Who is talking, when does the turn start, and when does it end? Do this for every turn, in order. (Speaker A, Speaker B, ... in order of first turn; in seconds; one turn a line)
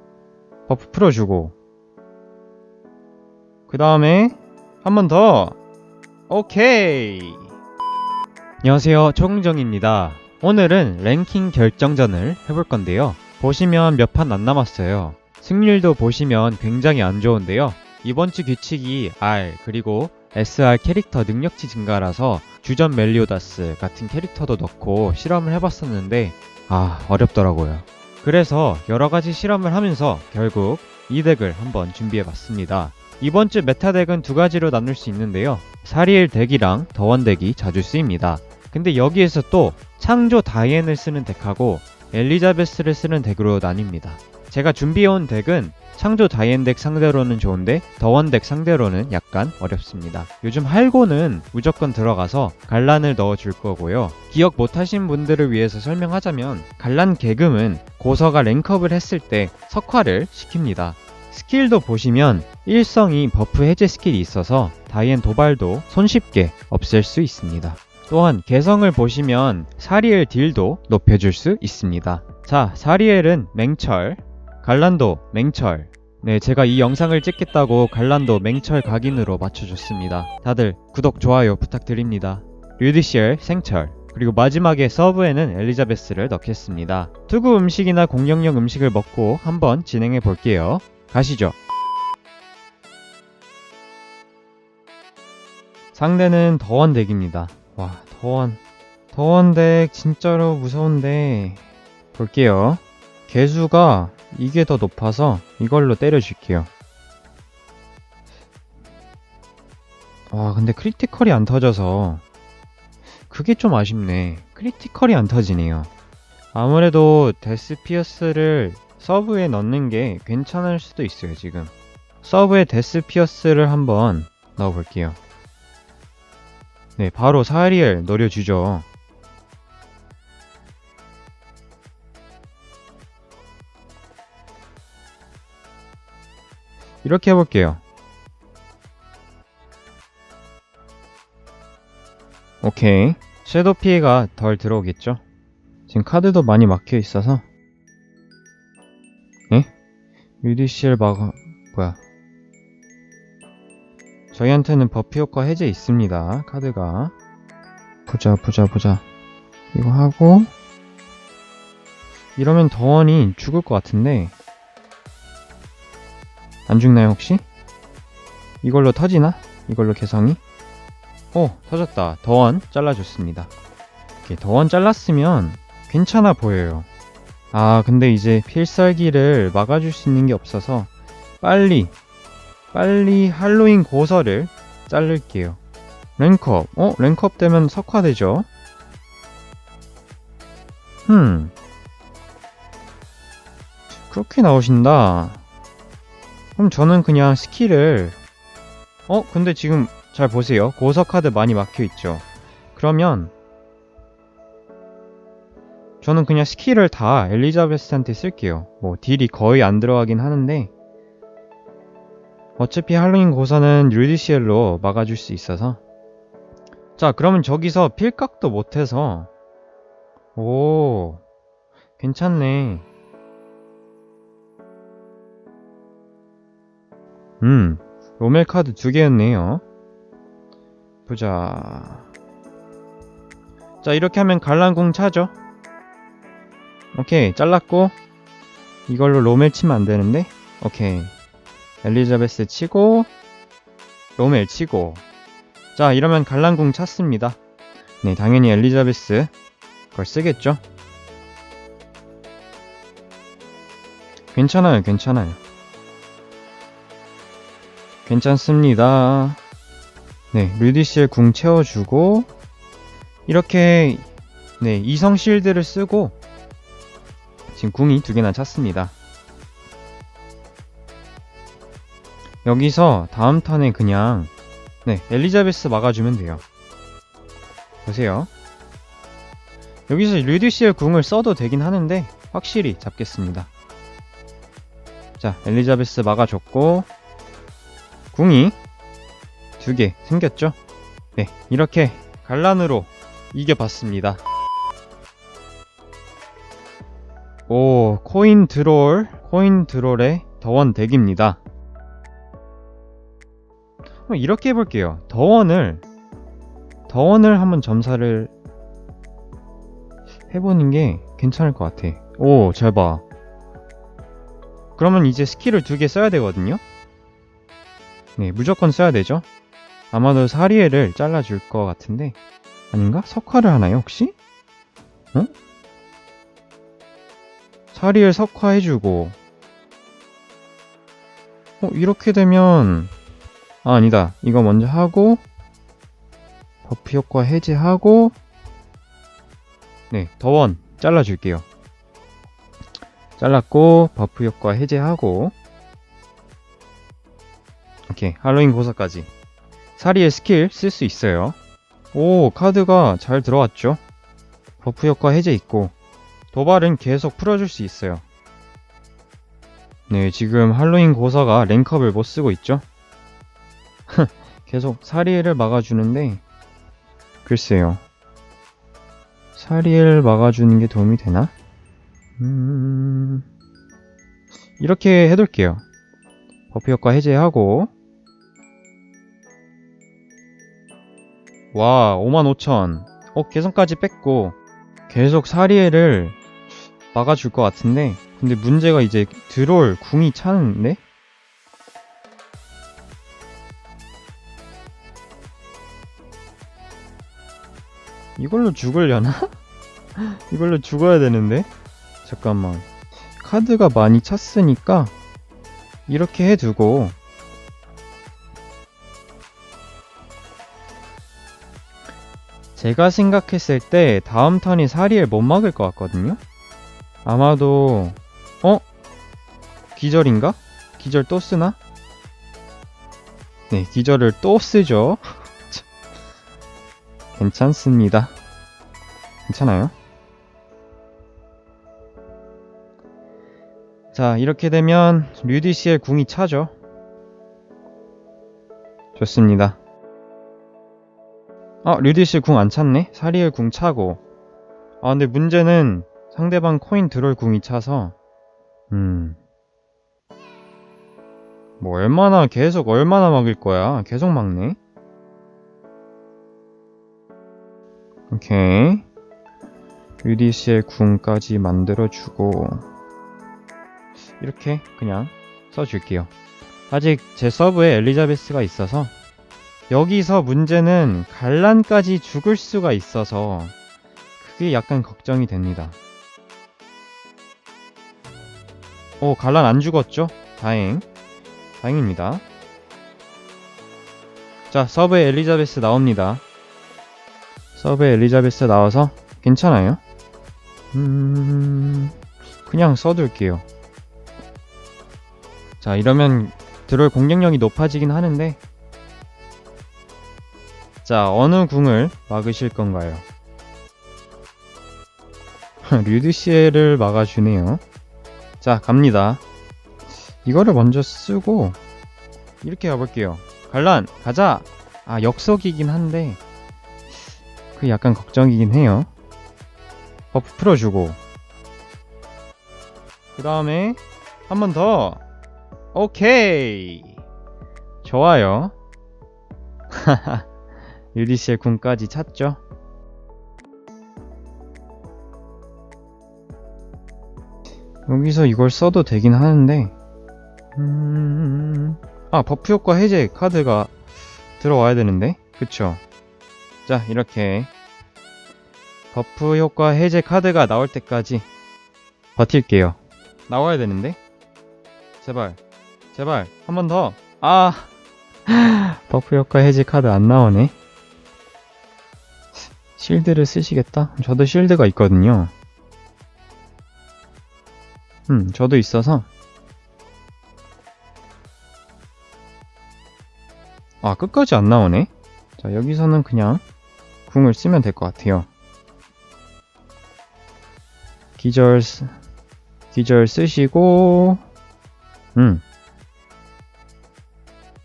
Speaker A: 0.7-1.5
Speaker A: 3.7-5.5
Speaker A: 6.3-7.5
Speaker A: 8.6-91.5
Speaker A: 96.0-98.6
Speaker A: 99.1-101.6
Speaker A: 102.2-106.7
Speaker A: 110.3-112.2
Speaker A: 113.3-115.9
Speaker A: 116.5-121.7
Speaker A: 122.2-125.2
Speaker A: 127.0-128.8
Speaker A: 137.0-137.8
Speaker A: 142.6-145.2
Speaker A: 145.9-147.4
Speaker A: 150.4-152.0
Speaker A: 154.3-157.1
Speaker A: 158.1-159.0
Speaker A: 159.7-160.5
Speaker A: 162.4-164.3
Speaker A: 166.7-167.4
Speaker A: 168.6-170.4
Speaker A: 171.3-173.5
Speaker A: 174.2-176.9
Speaker A: 177.5-180.9
Speaker A: 181.4-181.9
Speaker A: 182.7-185.6
Speaker A: 186.2-188.5
Speaker A: 191.1-191.5
Speaker A: 194.1-195.4
Speaker A: 196.6-198.2
Speaker A: 199.1-202.2
Speaker A: 202.8-203.3
Speaker A: 206.0-210.7
Speaker A: 212.6-215.8
Speaker A: 217.0-219.3
Speaker A: 220.4-221.2
Speaker A: 222.0-222.8
Speaker A: 227.4-229.6
Speaker A: 231.1-232.0
Speaker A: 233.8-235.3
Speaker A: 236.9-237.9
Speaker A: 238.9-241.1
Speaker A: 241.8-243.1
Speaker A: 244.2-245.0
Speaker A: 245.8-247.4
Speaker A: 248.0-249.3
Speaker A: 249.9-250.6
Speaker A: 254.3-255.4
Speaker A: 258.1-259.4
Speaker A: 260.3-262.3
Speaker A: 263.3-264.1
Speaker A: 264.6-266.1
Speaker A: 267.5-268.9
Speaker A: 272.4-274.3
Speaker A: 274.9-276.4
Speaker A: 277.9-278.3
Speaker A: 279.9-283.5
Speaker A: 285.2-286.9
Speaker A: 288.1-288.6
Speaker A: 289.6-290.6
Speaker A: 291.2-294.2
Speaker A: 297.5-301.4
Speaker A: 304.1-305.8
Speaker A: 306.9-308.3
Speaker A: 310.3-313.0
Speaker A: 314.8-316.6
Speaker A: 318.2-319.2
Speaker A: 319.9-322.1
Speaker A: 322.7-324.1
Speaker A: 327.7-329.1
Speaker A: 331.6-332.9
Speaker A: 333.6-335.2
Speaker A: 336.7-338.1
Speaker A: 339.9-341.4
Speaker A: 343.2-345.3
Speaker A: 347.9-349.1
Speaker A: 349.8-351.4
Speaker A: 351.9-353.8
Speaker A: 354.6-355.7
Speaker A: 356.3-358.0
Speaker A: 359.9-362.6
Speaker A: 363.9-366.2
Speaker A: 367.2-367.8
Speaker A: 369.4-371.3
Speaker A: 372.2-373.2
Speaker A: 374.6-375.6
Speaker A: 376.5-377.7
Speaker A: 381.5-384.4
Speaker A: 384.9-386.2
Speaker A: 386.9-390.8
Speaker A: 398.2-399.3
Speaker A: 400.0-401.5
Speaker A: 402.1-402.6
Speaker A: 403.2-404.9
Speaker A: 405.9-406.9
Speaker A: 412.6-416.2
Speaker A: 417.1-418.6
Speaker A: 419.8-421.6
Speaker A: 423.5-425.6
Speaker A: 427.2-428.1
Speaker A: 429.3-429.7
Speaker A: 433.9-436.5
Speaker A: 439.0-439.6
Speaker A: 441.6-444.0
Speaker A: 444.8-447.9
Speaker A: 448.7-449.2
Speaker A: 451.6-454.6
Speaker A: 458.1-458.9
Speaker A: 460.0-462.6
Speaker A: 464.2-466.1
Speaker A: 466.7-468.9
Speaker A: 469.7-473.5
Speaker A: 474.2-475.8
Speaker A: 479.0-480.9
Speaker A: 481.6-482.2
Speaker A: 484.5-486.2
Speaker A: 487.6-489.8
Speaker A: 490.7-491.9
Speaker A: 492.4-493.4
Speaker A: 495.6-498.4
Speaker A: 500.9-503.0
Speaker A: 505.6-507.6
Speaker A: 508.4-509.2
Speaker A: 510.2-511.6
Speaker A: 512.4-516.2
Speaker A: 517.5-518.9
Speaker A: 520.1-521.0
Speaker A: 523.1-525.0
Speaker A: 525.7-526.9
Speaker A: 527.8-528.5
Speaker A: 529.7-530.2
Speaker A: 530.9-532.4
Speaker A: 537.9-539.7
Speaker A: 540.6-543.7
Speaker A: 544.4-545.8
Speaker A: 546.7-547.5
Speaker A: 548.9-551.3
Speaker A: 552.2-552.8
Speaker A: 553.3-554.0
Speaker A: 555.0-555.4
Speaker A: 555.9-557.7
Speaker A: 558.3-560.5
Speaker A: 562.8-565.3
Speaker A: 568.1-569.1
Speaker A: 573.8-576.4
Speaker A: 577.1-578.3
Speaker A: 581.2-581.9
Speaker A: 582.7-584.2
Speaker A: 585.2-585.4